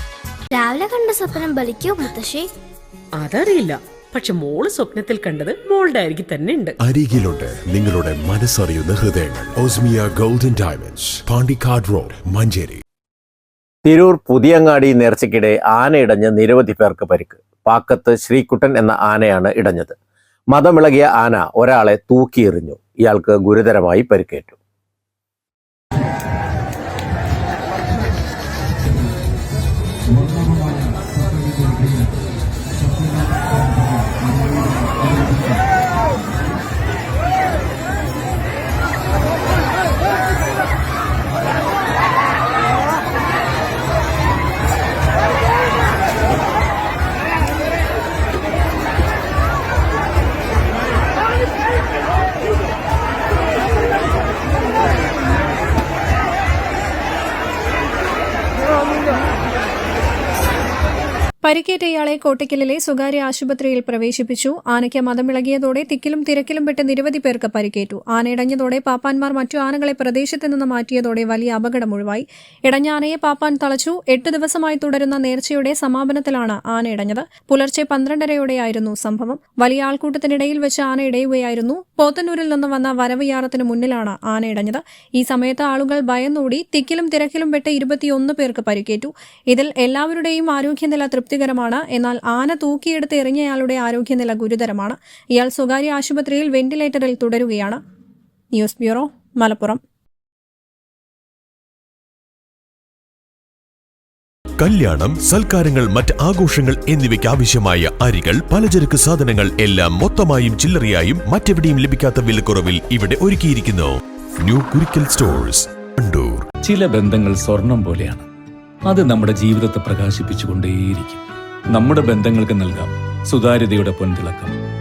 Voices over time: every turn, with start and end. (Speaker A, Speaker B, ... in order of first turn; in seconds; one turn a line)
Speaker A: 0.5-2.5
Speaker B: 3.2-6.8
Speaker C: 6.8-12.8
Speaker D: 13.9-20.0
Speaker D: 20.5-24.6
Speaker E: 61.4-97.8
Speaker E: 98.5-99.8
Speaker F: 104.6-116.5
Speaker G: 116.6-118.3
Speaker G: 118.9-124.6